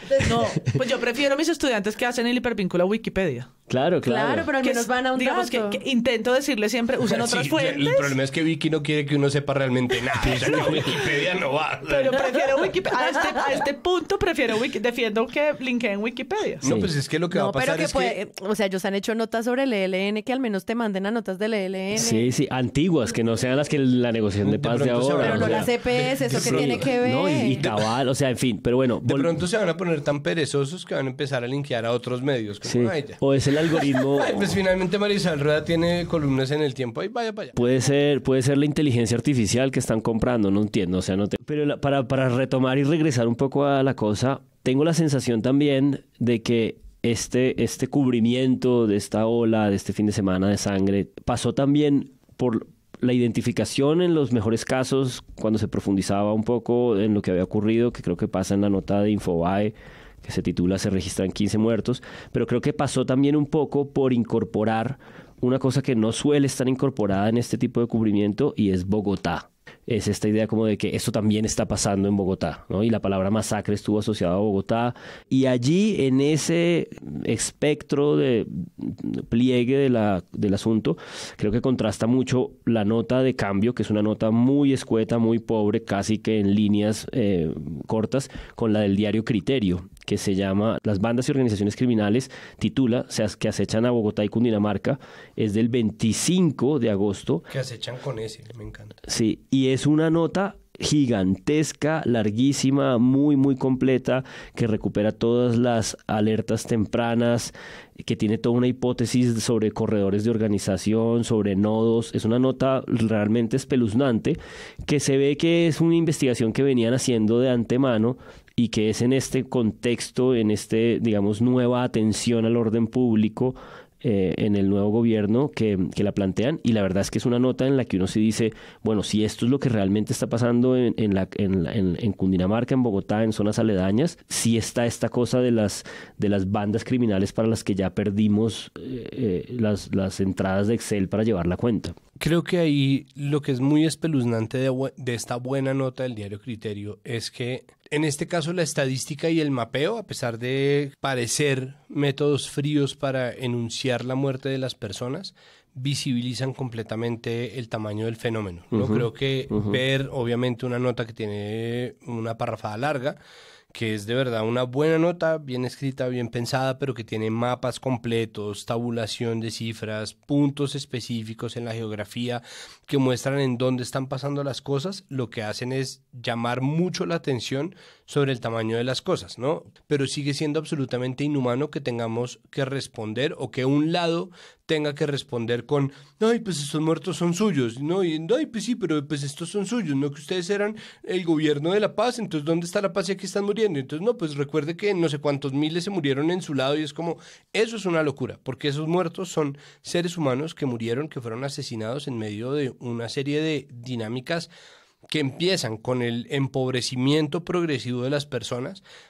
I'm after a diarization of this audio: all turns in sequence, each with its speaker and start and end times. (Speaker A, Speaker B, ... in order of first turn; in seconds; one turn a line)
Speaker A: 0.2-3.5
Speaker B: 3.7-4.5
Speaker C: 4.0-5.8
Speaker A: 4.6-8.1
Speaker D: 7.1-12.2
Speaker B: 10.2-10.8
Speaker A: 11.9-16.6
Speaker D: 16.6-18.2
Speaker B: 16.6-16.9
Speaker C: 17.3-22.3
Speaker B: 21.9-29.4
Speaker D: 24.4-26.9
Speaker C: 25.2-27.6
Speaker D: 27.6-27.9
Speaker D: 29.0-37.5
Speaker B: 32.6-34.6
Speaker B: 37.5-97.5
Speaker D: 97.5-99.0
Speaker B: 99.1-142.0
Speaker D: 142.2-163.2
Speaker B: 158.7-159.8
Speaker D: 163.7-204.5
Speaker D: 205.1-208.8